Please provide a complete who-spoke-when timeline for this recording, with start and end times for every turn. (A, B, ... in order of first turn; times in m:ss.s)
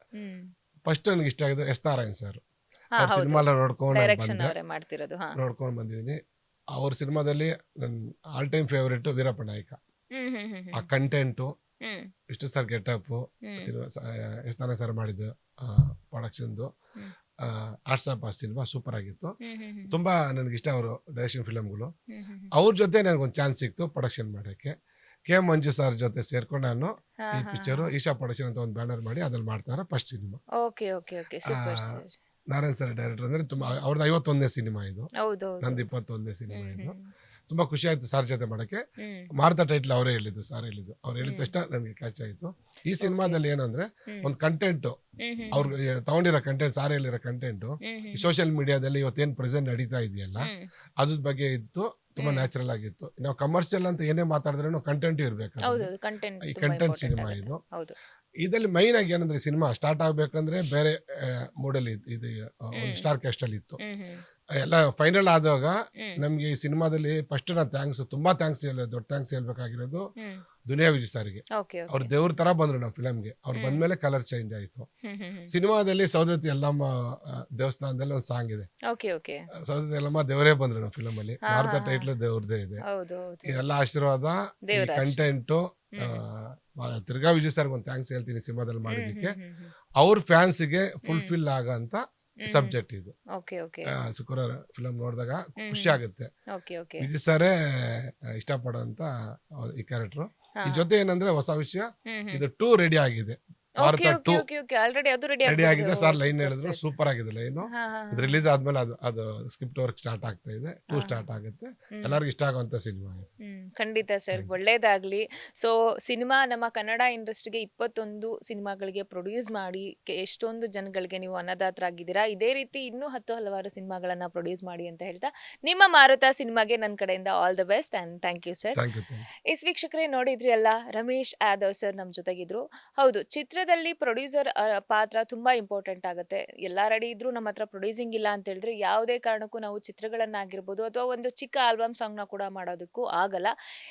0:00.2-0:00.4 A
0:00.9-0:02.4 B
0:03.0-0:03.4 A
0:03.0-0:04.5 B
0:03.9-0:05.3 A
0:05.4-0:06.2 B
0:06.8-0:09.8 B
0:10.2-0:10.9 A
0:10.8-0:11.5 B
0:12.3-0:16.7 B
0:17.4-0:19.3 B
0:19.4-0:19.9 A
0:19.9-0:21.9 B
0:22.1-0:22.5 A
0:22.6-0:24.7 B
0:25.3-0:30.4 B
0:27.2-0:27.9 A
0:30.6-0:32.1 A
0:31.5-0:32.0 B
0:32.5-0:35.1 B
0:35.2-0:35.8 A
0:35.6-0:37.0 B
0:36.5-0:37.1 A
0:37.5-0:38.8 B
0:39.0-0:39.3 A
0:39.4-0:45.0 B
0:41.2-0:41.5 A
0:43.0-0:43.4 A
0:45.2-0:45.7 A
0:45.5-0:50.5 B
0:47.9-0:48.3 A
0:50.4-0:50.7 A
0:51.0-0:55.9 B
0:52.2-0:52.5 A
0:55.6-0:58.0 A
0:56.5-0:57.6 B
0:58.4-1:03.8 B
1:02.8-1:03.0 A
1:03.8-1:04.2 A
1:04.6-1:10.0 B
1:10.7-1:14.9 B
1:11.6-1:12.1 A
1:13.6-1:13.8 A
1:15.0-1:15.5 A
1:15.5-1:18.7 B
1:18.9-1:19.4 A
1:19.7-1:22.8 B
1:21.5-1:22.1 A
1:22.9-1:23.6 A
1:23.5-1:29.4 B
1:24.7-1:25.2 A
1:28.9-1:29.7 A
1:30.0-1:33.1 B
1:31.1-1:31.3 A
1:32.4-1:32.7 A
1:33.3-1:33.9 A
1:33.9-1:36.3 B
1:35.6-1:36.0 A
1:36.5-1:37.1 A
1:37.0-1:39.1 B
1:39.6-1:44.4 B
1:42.1-1:42.4 A
1:43.8-1:46.8 A
1:45.5-1:53.3 B
1:47.7-1:48.4 A
1:50.9-1:51.2 A
1:52.0-1:52.2 A
1:53.4-2:08.8 A
2:08.8-2:09.3 B
2:09.5-2:23.5 A